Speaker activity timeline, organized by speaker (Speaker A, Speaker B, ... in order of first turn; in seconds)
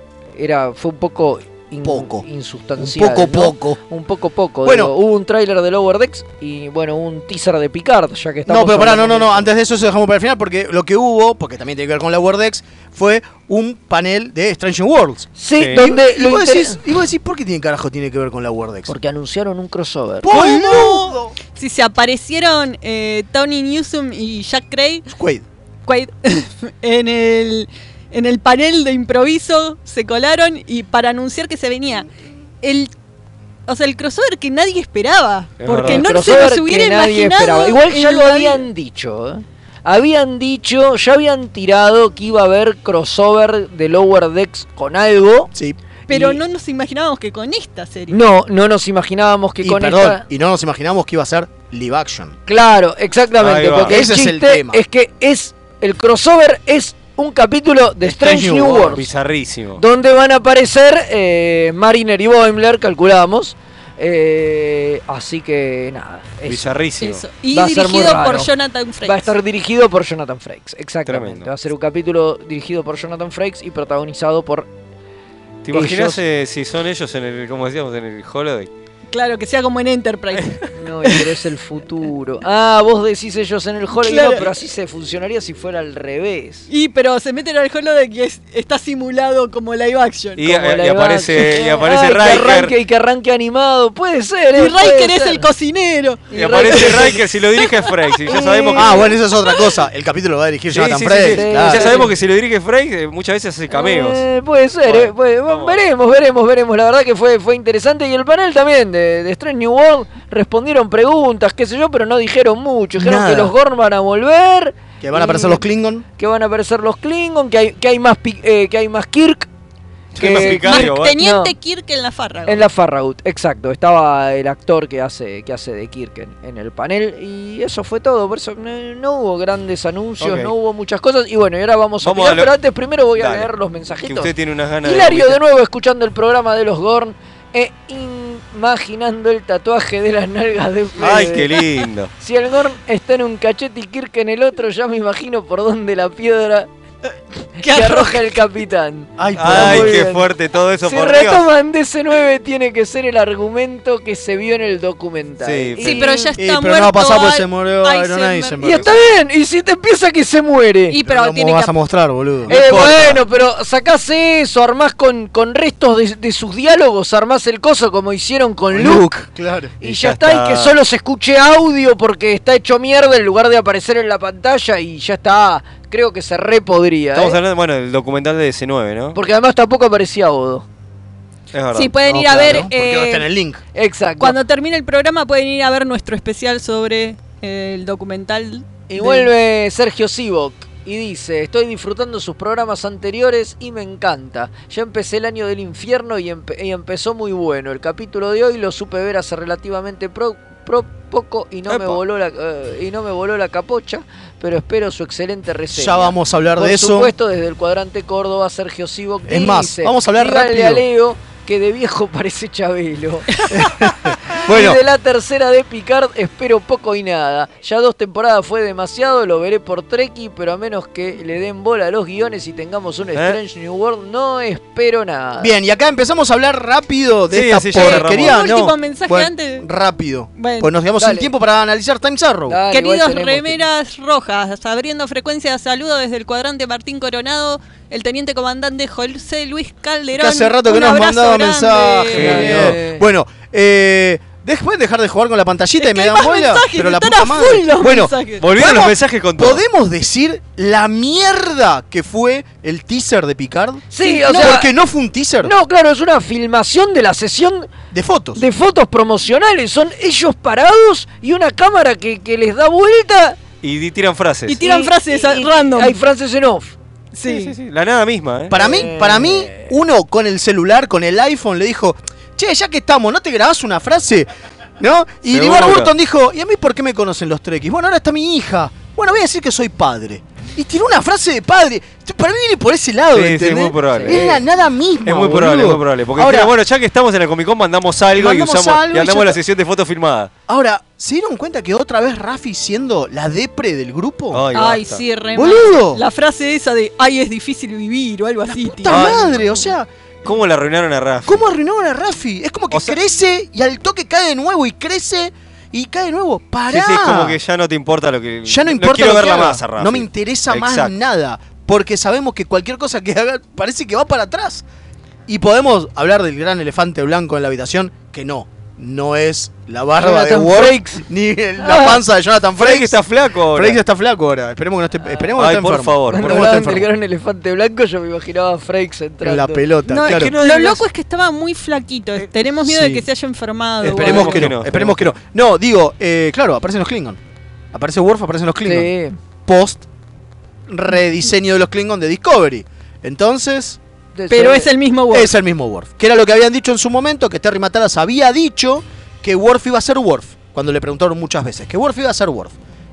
Speaker A: 0.3-9.5, 15.4-16.8, 18.9-20.4, 35.8-45.5, 46.1-46.4, 48.1-50.2, 52.5-59.0, 59.8-66.7, 67.5-68.5, 69.0-74.7, 75.7-76.2, 80.7-86.7, 90.5-95.5, 96.3-97.2, 98.3-98.9, 101.2-102.1, 103.7-115.6, 116.2-119.5, 120.2-121.5, 122.5-134.3, 134.8-141.6, 142.2-146.7, 147.6-150.2, 150.8-156.3, 158.6-161.0, 162.5-169.1, 169.8-177.4, 179.1-180.7, 183.7-184.4, 188.9-213.4, 214.4-225.5, 231.0-231.3, 232.5-233.6, 242.1-243.0, 253.9-254.7, 255.4-257.7, 258.3-263.4, 264.6-266.7, 268.6-269.7, 283.9-284.4, 320.0-321.0, 321.6-322.0, 326.1-329.6, 333.9-334.4, 338.6-339.1, 344.1-344.7
Speaker B: 1.8-2.2, 2.8-3.8, 4.6-4.9, 8.4-18.9, 20.2-21.4, 25.1-25.4, 49.6-52.4, 53.8-54.8, 58.2-58.9, 98.7-101.9, 113.0-113.5, 115.0-116.0, 149.2-150.0, 156.3-158.9, 161.0-162.5, 168.7-169.7, 182.1-183.6, 205.7-207.1, 209.3-210.8, 213.5-214.8, 225.4-232.6, 240.1-255.5, 257.9-258.4, 268.5-274.3, 274.8-286.5, 288.1-289.4, 290.5-294.4, 295.3-296.0, 298.6-299.9, 301.2-307.4, 308.4-314.6, 315.3-323.0, 323.5-326.9, 329.2-330.3, 332.6-333.0, 333.8-337.2, 337.7-338.9, 339.4-339.8, 340.7-343.8, 345.1-352.5
Speaker C: 15.6-15.8, 35.6-36.5, 53.4-53.9, 58.2-59.8, 66.5-67.2, 71.0-71.5, 75.6-78.7, 90.4-92.7, 96.3-99.1, 100.7-104.2, 104.8-105.8, 120.2-121.2, 130.2-130.5, 132.0-132.5, 133.2-133.5, 134.0-135.4, 141.0-142.1, 149.4-151.5, 155.4-156.1, 162.5-163.2, 169.8-170.8, 177.1-179.2, 181.5-182.6, 201.7-202.0, 227.3-228.4, 242.1-242.7, 248.4-249.6, 263.6-264.7, 267.2-268.5, 275.3-275.9, 283.1-284.3, 285.1-290.3, 294.3-295.1, 298.9-299.6, 300.2-301.4, 302.7-303.0, 306.7-310.9, 322.6-323.8, 325.4-326.6, 330.0-330.9, 333.8-335.1
Speaker D: 20.3-25.0, 25.8-32.1, 32.6-32.9, 33.7-38.6, 46.1-48.2, 67.0-69.3, 79.1-80.6, 84.0-84.4, 86.7-90.4, 94.5-97.0, 120.3-122.6, 147.6-148.2, 155.8-158.6, 160.9-161.7, 181.7-183.3, 184.2-189.3, 227.7-229.7, 230.3-230.7, 232.7-242.4, 245.8-248.4, 254.0-254.6, 264.5-265.9, 267.1-267.5, 294.5-299.2, 329.9-334.3, 344.3-345.3